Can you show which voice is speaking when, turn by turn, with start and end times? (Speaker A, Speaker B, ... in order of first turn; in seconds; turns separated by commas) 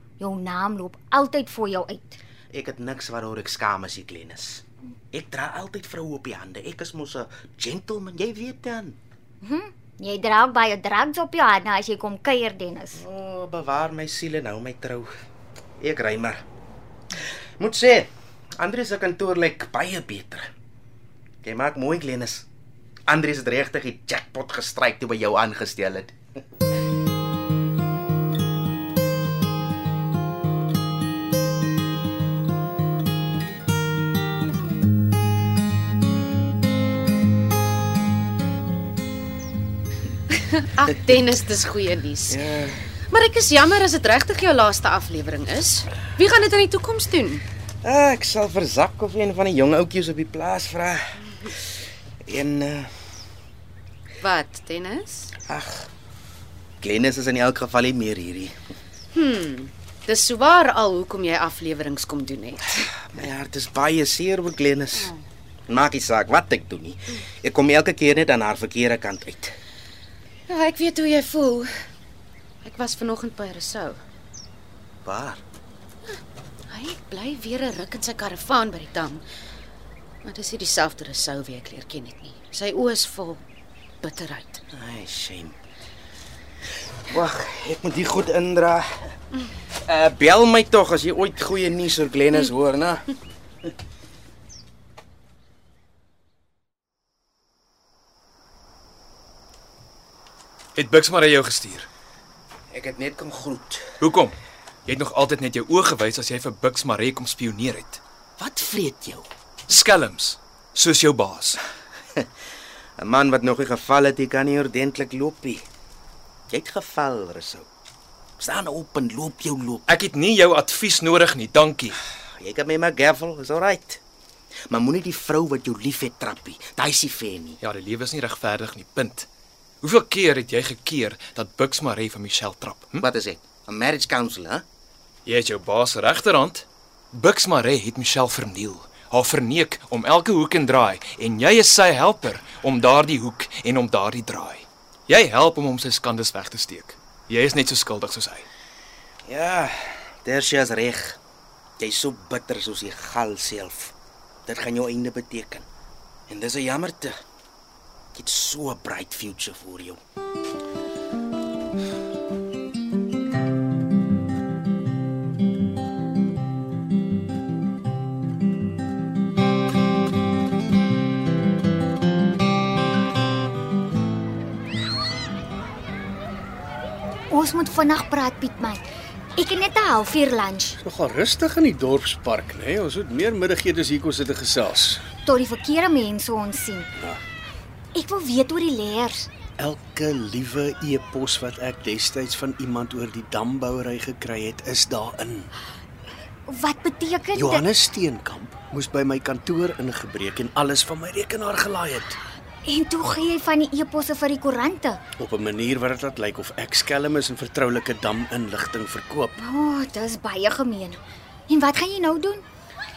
Speaker A: 0.2-2.2, Speaker B: 2.5-9.0, Speaker A: 9.4-13.0, Speaker B: 13.0-15.1, Speaker B: 15.8-16.4, Speaker B: 17.6-20.5, Speaker B: 21.4-22.5, Speaker B: 23.1-26.1, Speaker C: 40.3-42.4, Speaker B: 42.3-42.8, Speaker C: 43.1-47.4, Speaker B: 47.8-51.0, Speaker B: 52.2-52.9, Speaker C: 54.2-55.3, Speaker B: 55.5-55.9, Speaker B: 56.8-58.5, Speaker C: 59.1-62.8, Speaker B: 63.1-65.1, Speaker B: 65.7-69.5, Speaker C: 70.5-71.7, Speaker C: 72.6-74.0, Speaker B: 75.0-75.4, Speaker C: 76.7-79.2, Speaker C: 80.2-83.4, Speaker C: 84.0-84.6, Speaker B: 84.7-85.6, Speaker B: 87.1-89.1, Speaker B: 89.8-93.2, Speaker D: 100.8-101.9, Speaker B: 102.7-103.9, Speaker D: 104.0-108.0, Speaker B: 108.4-109.3, Speaker D: 109.7-111.6, Speaker B: 113.0-115.6, Speaker B: 116.5-117.7, Speaker B: 118.4-119.8, Speaker D: 119.9-122.0, Speaker B: 122.4-124.0, Speaker B: 124.7-127.6, Speaker D: 127.6-129.3, Speaker D: 129.8-133.0, Speaker B: 133.0-134.6, Speaker D: 135.2-148.5, Speaker B: 149.2-151.2, Speaker B: 151.8-153.9, Speaker B: 154.5-155.7, Speaker B: 156.3-157.1, Speaker B: 158.1-160.0, Speaker A: 177.3-178.8, Speaker A: 179.4-180.8, Speaker E: 180.8-185.0, Speaker A: 185.2-186.9, Speaker A: 187.9-189.3, Speaker E: 189.6-195.5, Speaker A: 196.5-197.7, Speaker E: 197.3-202.2, Speaker A: 202.7-205.0, Speaker E: 205.2-209.3, Speaker A: 209.4-212.4